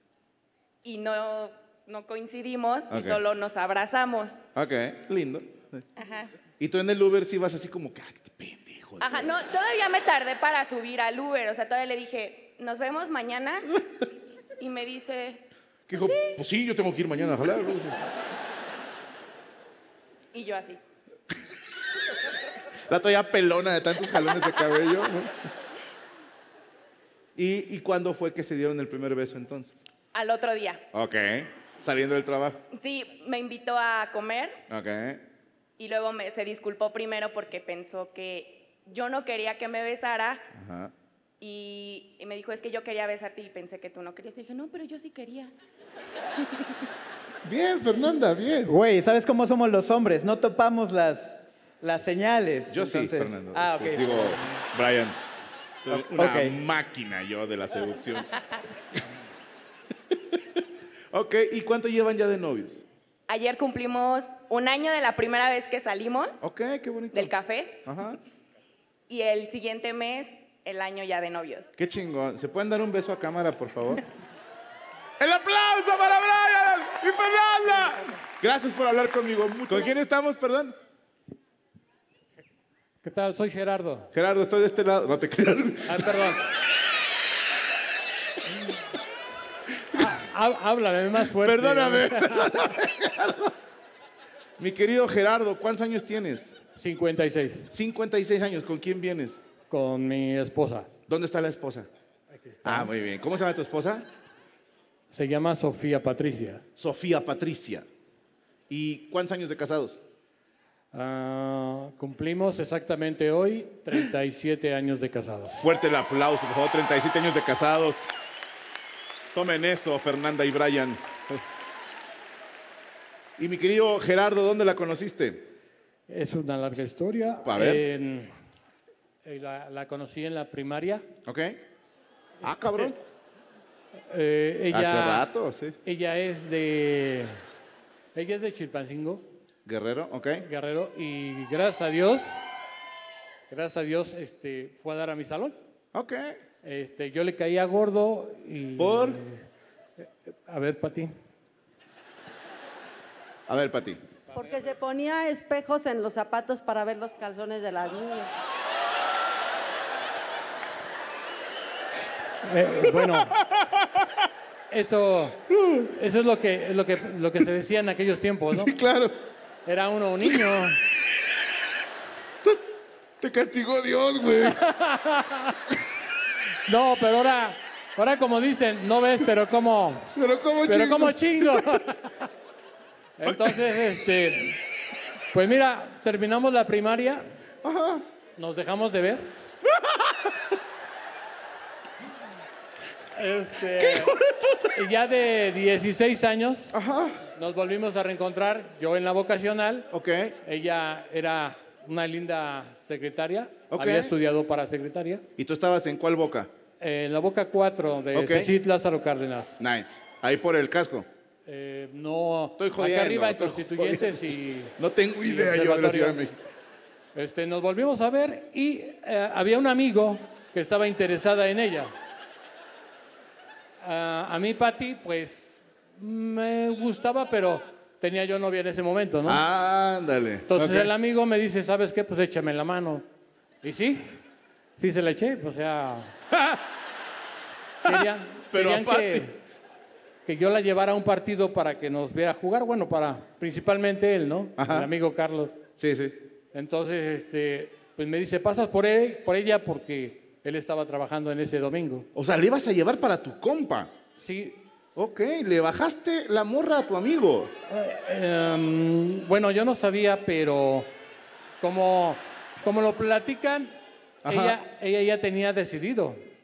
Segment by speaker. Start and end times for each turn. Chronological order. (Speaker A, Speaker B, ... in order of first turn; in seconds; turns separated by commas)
Speaker A: 0.8-4.4, Speaker B: 2.9-3.2, Speaker B: 4.5-5.8, Speaker A: 6.0-6.3, Speaker B: 6.6-9.2, Speaker A: 9.0-13.7, Speaker A: 14.6-16.4, Speaker B: 15.9-18.0, Speaker A: 20.3-20.8, Speaker B: 22.9-25.3, Speaker B: 27.4-29.8, Speaker A: 30.1-30.8, Speaker B: 30.9-32.6, Speaker A: 32.8-34.6, Speaker B: 34.7-35.2, Speaker A: 35.8-40.4, Speaker B: 40.5-40.9, Speaker A: 41.4-45.5, Speaker B: 47.4-48.8, Speaker C: 48.7-54.6, Speaker B: 52.6-55.2, Speaker B: 55.8-58.3, Speaker C: 55.9-56.6, Speaker B: 61.1-62.8, Speaker A: 63.3-66.5, Speaker B: 66.4-68.2, Speaker A: 67.1-67.8, Speaker A: 69.1-71.8, Speaker B: 71.8-74.0, Speaker B: 75.2-80.8, Speaker D: 83.0-84.1, Speaker B: 84.1-86.3, Speaker D: 85.9-86.4, Speaker D: 89.9-92.5, Speaker B: 91.2-93.5, Speaker B: 94.6-96.6, Speaker D: 96.7-97.7, Speaker B: 97.7-99.4, Speaker D: 99.7-100.9, Speaker B: 101.1-101.9, Speaker D: 102.3-102.9, Speaker B: 102.6-104.0, Speaker D: 105.1-106.6, Speaker B: 106.8-107.9, Speaker B: 108.7-110.0, Speaker D: 110.9-115.6, Speaker B: 115.5-118.1, Speaker B: 119.3-121.4, Speaker B: 123.4-125.5, Speaker D: 126.1-128.3, Speaker B: 127.4-127.9, Speaker D: 129.2-131.0, Speaker B: 131.2-131.6, Speaker D: 132.4-132.9, Speaker B: 132.5-133.0, Speaker D: 134.1-135.3, Speaker B: 134.7-135.8, Speaker D: 135.8-137.4, Speaker D: 138.1-139.2, Speaker B: 139.7-140.5, Speaker D: 140.5-142.4, Speaker D: 143.5-145.6, Speaker B: 145.9-146.4, Speaker D: 146.6-149.4, Speaker B: 148.8-149.2, Speaker D: 150.5-151.1, Speaker B: 153.5-154.0, Speaker E: 154.4-158.3, Speaker D: 162.4-163.3, Speaker B: 163.3-164.0, Speaker D: 164.7-165.4, Speaker B: 165.5-165.9, Speaker D: 166.0-168.7, Speaker B: 168.5-169.1, Speaker D: 169.7-170.8, Speaker B: 170.2-170.6, Speaker B: 173.2-174.6, Speaker D: 174.7-175.4, Speaker D: 176.7-180.0, Speaker B: 180.1-181.8, Speaker D: 180.7-182.0, Speaker D: 183.2-184.6, Speaker B: 183.2-183.7, Speaker D: 185.3-187.3, Speaker B: 187.6-188.0, Speaker D: 188.4-189.3, Speaker B: 189.7-190.3, Speaker D: 193.2-194.1, Speaker B: 193.7-194.8, Speaker D: 194.8-196.7, Speaker B: 196.7-197.2, Speaker D: 197.3-199.9, Speaker B: 199.9-200.3, Speaker D: 200.4-205.2, Speaker B: 203.7-204.1, Speaker B: 205.4-206.5, Speaker D: 206.8-209.6, Speaker B: 208.1-208.6, Speaker B: 209.6-211.1, Speaker D: 211.5-216.2, Speaker B: 212.6-216.4, Speaker D: 217.1-221.9, Speaker D: 223.8-229.4, Speaker B: 229.2-230.9, Speaker D: 230.5-233.0, Speaker D: 233.6-234.2, Speaker D: 234.8-236.1, Speaker B: 236.3-236.6, Speaker B: 237.8-239.3, Speaker D: 237.9-239.3, Speaker D: 240.2-245.6, Speaker B: 244.6-244.9, Speaker B: 245.8-246.3, Speaker D: 246.5-252.1, Speaker B: 252.1-253.9, Speaker D: 254.2-254.6, Speaker B: 254.9-257.5, Speaker D: 257.7-260.9, Speaker D: 261.6-263.7, Speaker B: 264.2-264.6, Speaker D: 264.3-266.2